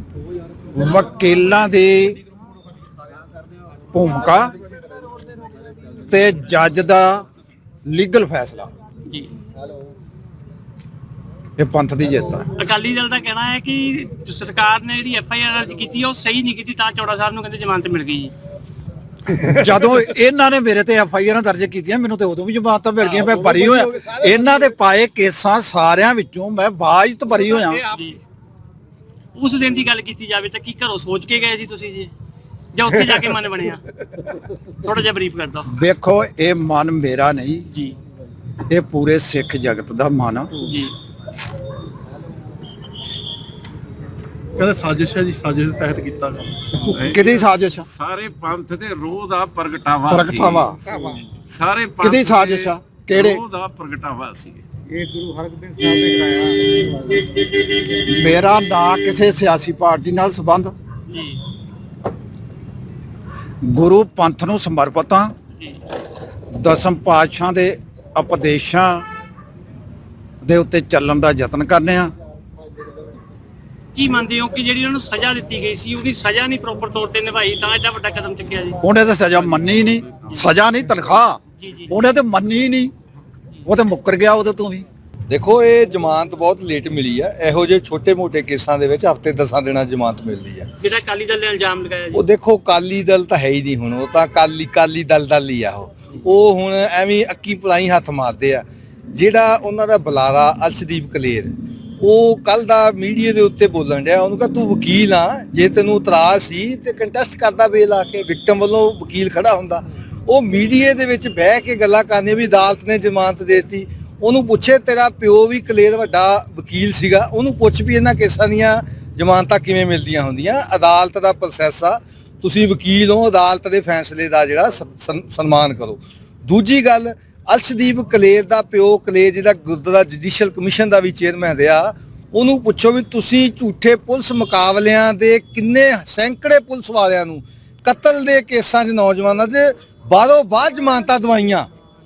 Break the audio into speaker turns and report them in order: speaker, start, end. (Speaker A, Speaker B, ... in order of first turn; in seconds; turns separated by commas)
Speaker A: 0.7-2.2, Speaker A: 3.9-4.5, Speaker A: 6.1-7.2, Speaker A: 7.9-8.7, Speaker A: 11.6-12.5, Speaker B: 12.6-18.3, Speaker A: 19.4-27.9, Speaker C: 23.4-24.2, Speaker B: 27.9-28.2, Speaker B: 29.3-32.1, Speaker B: 32.7-35.7, Speaker A: 35.7-37.6, Speaker A: 38.7-40.5, Speaker B: 40.6-40.9, Speaker D: 44.6-46.7, Speaker A: 46.9-47.9, Speaker E: 46.9-54.6, Speaker A: 50.1-51.0, Speaker A: 52.0-53.4, Speaker D: 54.9-56.8, Speaker A: 58.0-60.7, Speaker B: 61.1-61.4, Speaker A: 63.6-65.3, Speaker A: 66.5-69.1, Speaker A: 70.4-72.1, Speaker B: 73.9-78.8, Speaker A: 78.8-82.9, Speaker B: 81.6-81.9, Speaker A: 83.7-84.8, Speaker C: 85.3-90.7, Speaker B: 90.8-92.2, Speaker C: 92.1-141.7